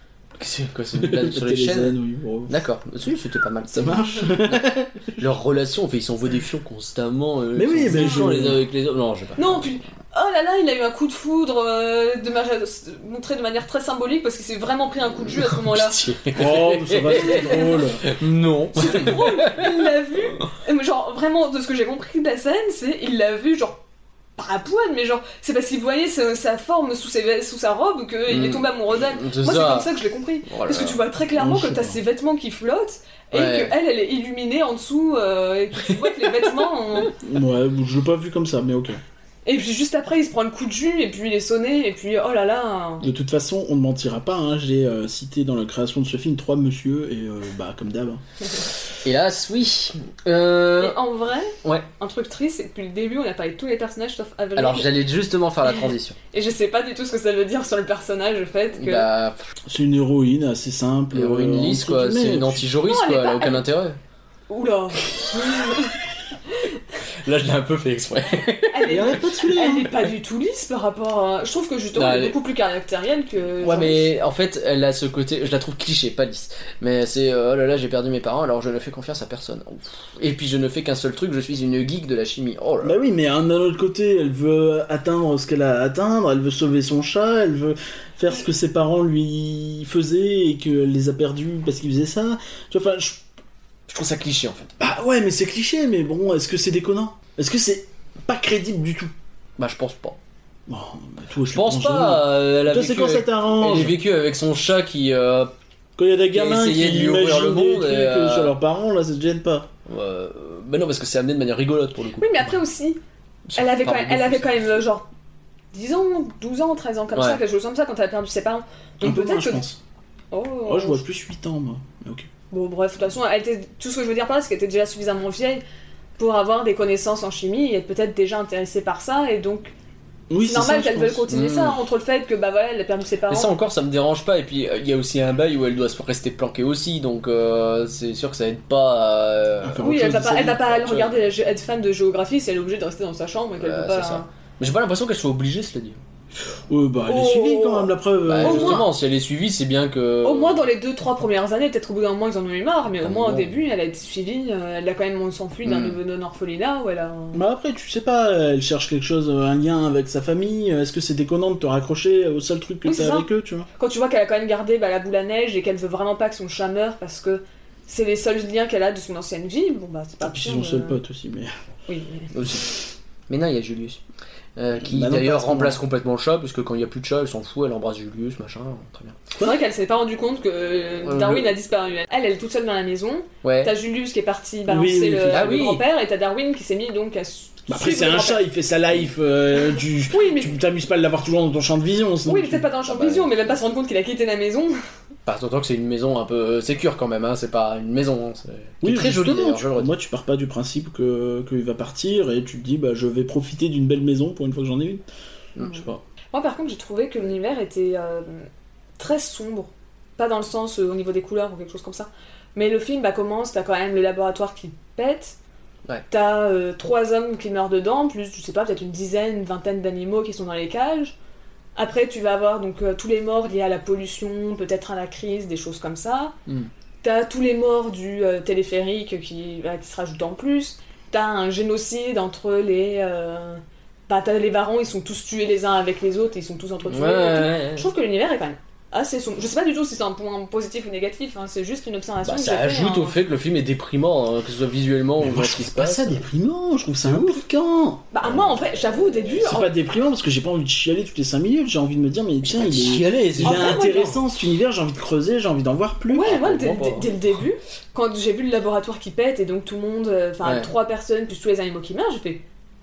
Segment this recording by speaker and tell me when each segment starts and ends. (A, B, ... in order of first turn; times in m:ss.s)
0:00.4-0:02.0 A
0:01.0-0:02.6 B
0:02.5-0:09.6 A
0:03.7-0:05.1 B
0:07.6-0:08.6 B
0:07.9-0:08.2 C
0:09.4-0:16.0 C
0:15.5-0:19.6 A
0:16.3-0:18.1 B
0:17.1-0:17.8 C
0:18.7-0:23.8 C
0:24.4-0:37.1 C
0:28.3-0:29.9 A
0:30.5-0:31.0 A
0:31.4-0:32.0 B
0:33.3-0:33.7 A
0:37.2-0:39.0 B
0:39.4-0:43.0 C
0:43.0-0:48.2 B
0:49.0-0:51.0 A
0:50.8-0:54.9 C
0:54.6-0:56.2 A
0:56.3-0:59.1 C
0:58.8-0:59.4 A
0:59.7-1:02.6 B
1:01.1-1:04.0 A
1:02.8-1:03.7 C
1:04.5-1:05.9 C
1:07.2-1:08.9 A
1:08.7-1:14.1 C
1:08.8-1:10.0 B
1:12.0-1:12.4 A
1:13.6-1:23.0 A
1:22.8-1:33.2 B
1:33.9-1:34.7 A
1:34.8-1:39.1 B
1:39.6-1:40.2 A
1:40.7-1:44.0 B
1:41.5-1:45.5 A
1:46.0-1:49.7 B
1:46.3-1:48.6 A
1:49.9-1:52.5 A
1:52.2-1:53.0 C
1:53.5-1:54.7 A
1:53.6-1:55.1 C
1:55.7-1:59.6 C
1:57.1-1:57.4 A
1:59.0-1:59.8 B
2:00.3-2:01.0 C
2:00.7-2:02.3 B
2:02.5-2:05.6 C
2:06.2-2:09.7 C
2:10.3-2:11.3 B
2:10.4-2:13.5 C
2:11.3-2:11.8 A
2:13.3-2:19.8 A
2:19.6-2:20.8 B
2:19.8-2:24.3 C
2:20.7-2:21.1 A
2:23.6-2:26.0 A
2:26.7-2:28.8 B
2:27.1-2:28.9 C
2:28.3-2:30.6 A
2:30.2-2:37.4 C
2:33.0-2:33.5 A
2:35.6-2:36.0 A
2:37.3-2:43.7 B
2:42.8-2:43.3 C
2:43.8-2:51.0 C
2:50.2-2:51.5 B
2:51.9-2:52.3 C
2:52.3-2:52.7 A
2:53.3-2:54.0 A
2:54.6-2:59.2 A
2:54.8-2:55.8 B
2:59.4-3:08.5 C
3:01.0-3:01.5 A
3:03.4-3:03.8 A
3:04.7-3:05.7 B
3:05.3-3:05.8 A
3:07.7-3:12.7 B
3:10.1-3:10.6 C
3:12.3-3:14.8 C
3:12.9-3:13.5 A
3:15.3-3:19.9 A
3:18.8-3:25.0 B
3:25.6-3:26.0 B
3:26.3-3:35.4 C
3:36.1-3:41.2 C
3:41.8-3:46.3 C
3:47.0-4:03.2 C
3:56.9-3:57.9 A
4:02.2-4:06.2 A
4:05.2-4:08.0 B
4:07.0-4:07.4 A
4:08.1-4:09.7 C
4:09.4-4:16.3 B
4:12.5-4:14.2 A
4:13.4-4:14.1 C
4:16.1-4:22.4 C
4:16.2-4:17.1 A
4:20.4-4:20.7 A